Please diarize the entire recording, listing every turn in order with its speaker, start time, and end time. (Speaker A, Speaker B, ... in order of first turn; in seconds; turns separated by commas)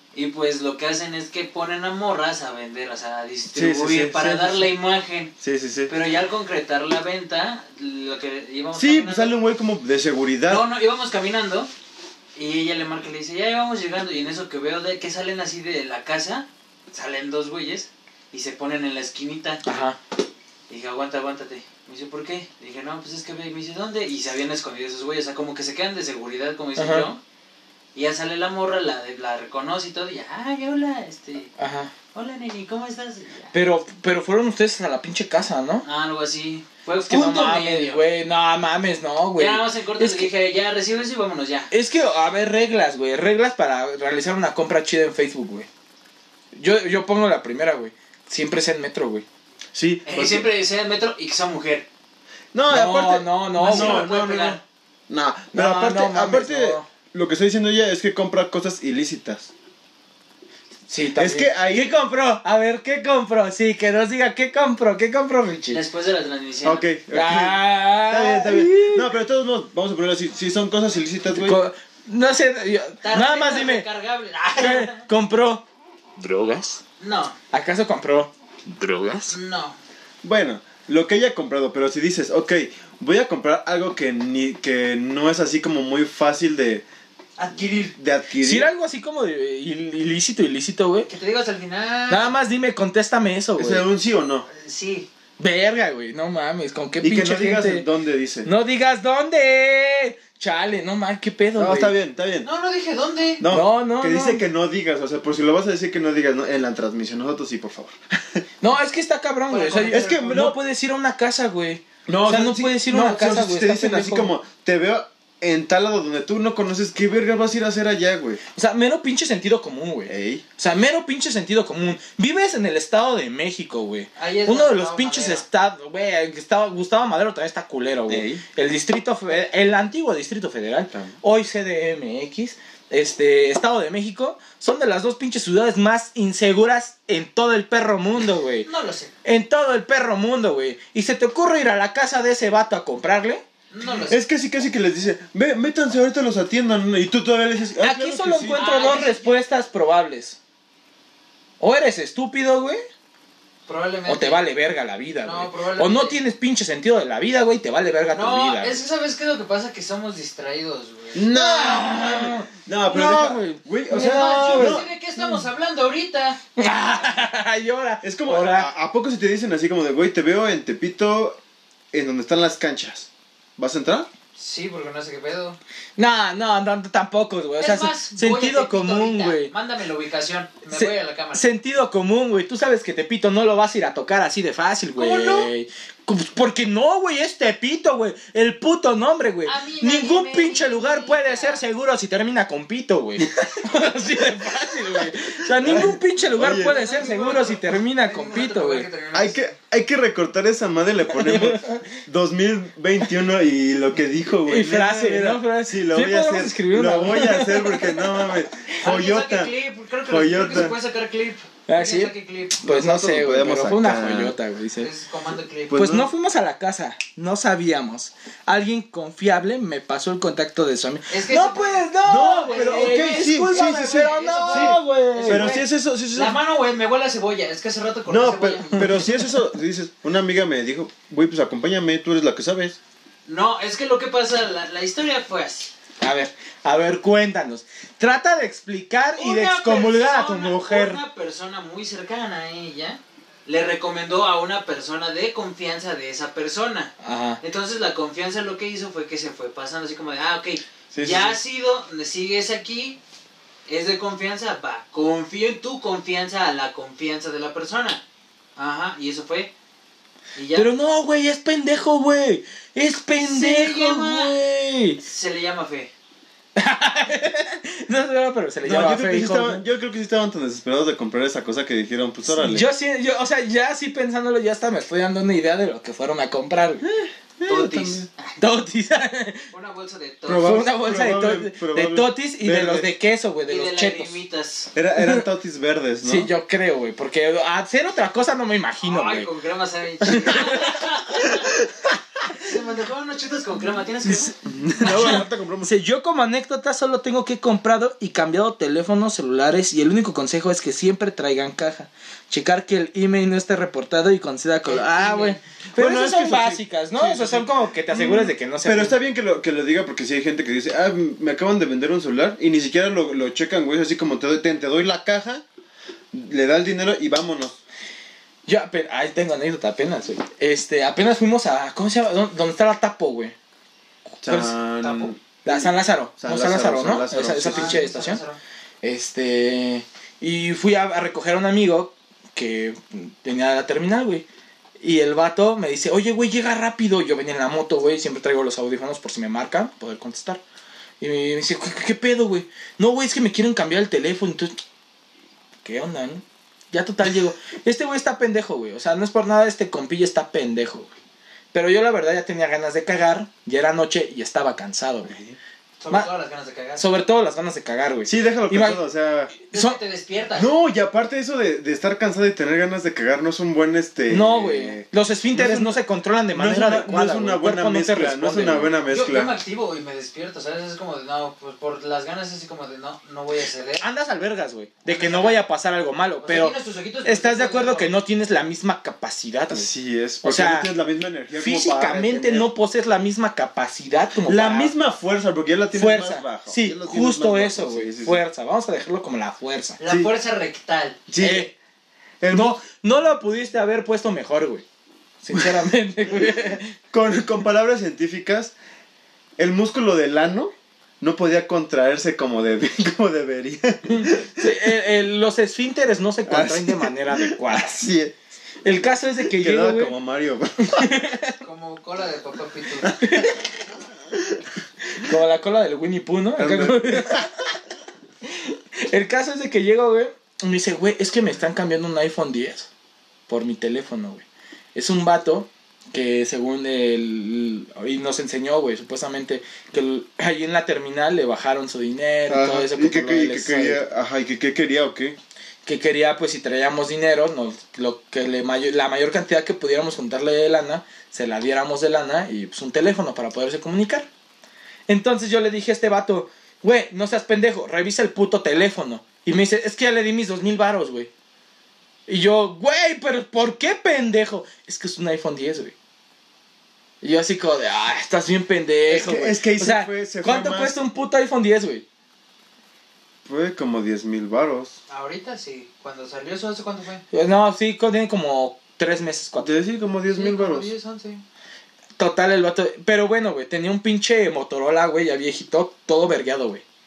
Speaker A: 0.1-5.3, Speaker B: 3.5-4.7, Speaker B: 5.4-5.9, Speaker A: 5.9-9.3, Speaker B: 8.7-10.7, Speaker A: 10.5-11.7, Speaker A: 12.3-19.6, Speaker C: 19.6-20.0, Speaker A: 20.7-27.2, Speaker C: 26.8-27.1, Speaker A: 27.9-31.5, Speaker C: 31.6-31.9, Speaker A: 32.1-33.5, Speaker C: 33.5-35.8, Speaker A: 35.8-38.0, Speaker C: 37.1-40.3, Speaker A: 39.4-41.7, Speaker C: 41.7-45.7, Speaker C: 46.5-49.2, Speaker B: 49.7-50.5, Speaker A: 50.0-51.9, Speaker B: 52.5-59.5, Speaker C: 52.7-54.1, Speaker A: 53.6-54.6, Speaker C: 55.5-56.9, Speaker C: 60.9-65.8, Speaker B: 61.1-61.9, Speaker A: 65.7-66.8, Speaker B: 66.6-71.6, Speaker C: 67.1-69.1, Speaker C: 71.3-73.8, Speaker A: 73.0-75.0, Speaker C: 74.6-75.6, Speaker C: 76.3-76.8, Speaker A: 77.0-77.3, Speaker C: 77.5-79.3, Speaker A: 79.3-79.8, Speaker B: 80.2-86.8, Speaker A: 87.4-87.9, Speaker B: 87.9-88.7, Speaker C: 88.4-91.1, Speaker A: 91.1-92.3, Speaker C: 92.1-93.8, Speaker B: 93.6-94.5, Speaker A: 94.5-95.1, Speaker C: 95.4-97.9, Speaker B: 97.0-98.5, Speaker C: 98.4-101.9, Speaker B: 101.6-102.5, Speaker A: 102.4-103.4, Speaker B: 103.4-108.0, Speaker C: 103.5-104.4, Speaker C: 108.6-114.3, Speaker A: 109.5-110.3, Speaker B: 109.9-110.6, Speaker B: 112.1-118.4, Speaker C: 118.5-138.7, Speaker B: 120.1-120.4, Speaker A: 124.2-125.4, Speaker B: 128.1-128.4, Speaker A: 138.6-139.1, Speaker C: 139.2-143.4, Speaker A: 143.7-144.2, Speaker B: 144.1-148.6, Speaker C: 147.8-150.4, Speaker A: 148.5-149.4, Speaker C: 151.6-152.8, Speaker A: 153.7-154.4, Speaker C: 154.1-158.8, Speaker A: 155.2-156.2, Speaker A: 158.1-161.2, Speaker B: 161.1-164.9, Speaker C: 161.3-165.4, Speaker A: 163.9-166.4, Speaker C: 166.6-168.7, Speaker B: 168.0-171.4, Speaker B: 171.9-174.1, Speaker A: 174.3-175.6, Speaker C: 176.0-179.5, Speaker A: 177.6-181.4, Speaker C: 180.7-198.9, Speaker A: 185.0-185.5, Speaker A: 189.4-191.6, Speaker B: 195.5-196.8, Speaker A: 196.4-199.5, Speaker B: 199.1-209.5, Speaker C: 201.1-201.9, Speaker C: 204.5-208.3, Speaker A: 208.8-212.6, Speaker B: 210.1-210.8, Speaker C: 211.7-214.9, Speaker B: 212.6-214.3, Speaker A: 214.8-215.8, Speaker B: 215.7-216.1, Speaker C: 215.7-225.6, Speaker A: 221.1-229.1, Speaker B: 222.1-226.4, Speaker B: 228.1-232.8, Speaker C: 228.8-229.1, Speaker A: 233.2-235.7, Speaker C: 236.0-241.0, Speaker A: 239.2-253.0, Speaker C: 247.0-247.4, Speaker B: 250.9-251.4, Speaker A: 253.7-258.0, Speaker A: 258.6-259.5, Speaker A: 260.3-260.7, Speaker C: 260.5-265.0, Speaker A: 263.2-264.4, Speaker A: 265.0-265.9, Speaker C: 266.6-269.6, Speaker B: 268.6-272.7, Speaker C: 272.2-276.8, Speaker B: 276.8-278.1, Speaker A: 277.5-278.3, Speaker C: 278.4-279.5, Speaker A: 279.5-280.6, Speaker B: 280.3-282.9, Speaker C: 280.4-284.2, Speaker A: 283.5-284.7, Speaker B: 284.7-286.3, Speaker C: 286.0-289.3, Speaker A: 288.8-291.6, Speaker C: 290.1-290.8, Speaker A: 292.4-294.4, Speaker B: 294.4-295.7, Speaker C: 294.8-309.0, Speaker A: 304.6-305.4, Speaker B: 305.7-315.4, Speaker B: 316.1-317.6, Speaker C: 318.4-323.3, Speaker C: 324.2-324.5, Speaker B: 324.2-327.8, Speaker A: 324.8-325.1, Speaker C: 325.4-328.2, Speaker A: 327.5-328.4, Speaker C: 328.8-334.2, Speaker C: 334.8-340.4, Speaker C: 341.0-344.6, Speaker C: 345.6-350.9, Speaker C: 351.5-355.1, Speaker B: 355.1-355.4, Speaker A: 355.8-356.9, Speaker C: 356.8-358.8, Speaker B: 358.0-359.3, Speaker C: 359.4-359.8, Speaker A: 359.5-360.5, Speaker B: 360.3-365.8, Speaker C: 364.1-368.7, Speaker B: 366.3-369.3, Speaker A: 368.9-373.8, Speaker C: 373.8-379.7, Speaker A: 374.9-375.4, Speaker A: 376.2-377.9, Speaker B: 379.5-382.5, Speaker C: 380.2-380.7, Speaker C: 381.4-384.7, Speaker B: 384.2-388.2, Speaker C: 385.7-389.8, Speaker A: 389.8-391.0, Speaker B: 389.9-390.1, Speaker B: 391.1-391.5, Speaker C: 391.2-391.5, Speaker B: 392.2-392.6, Speaker C: 392.3-394.6, Speaker C: 395.2-396.8, Speaker B: 396.9-398.5, Speaker B: 399.4-404.6, Speaker C: 403.9-407.9, Speaker B: 406.3-408.1, Speaker C: 408.6-409.9, Speaker B: 409.2-410.9, Speaker C: 410.6-411.4, Speaker A: 411.4-413.0, Speaker C: 413.0-413.4, Speaker B: 414.1-414.4, Speaker C: 414.9-417.3, Speaker B: 416.4-417.3, Speaker C: 418.2-422.7, Speaker C: 423.3-433.8, Speaker B: 432.3-435.2, Speaker C: 435.6-444.1, Speaker C: 444.9-451.1, Speaker C: 452.1-455.7, Speaker C: 457.0-461.8, Speaker B: 458.9-460.8, Speaker B: 463.2-464.7, Speaker A: 464.9-467.0, Speaker C: 467.1-469.5, Speaker B: 469.4-470.7, Speaker A: 470.1-471.2, Speaker C: 472.0-476.6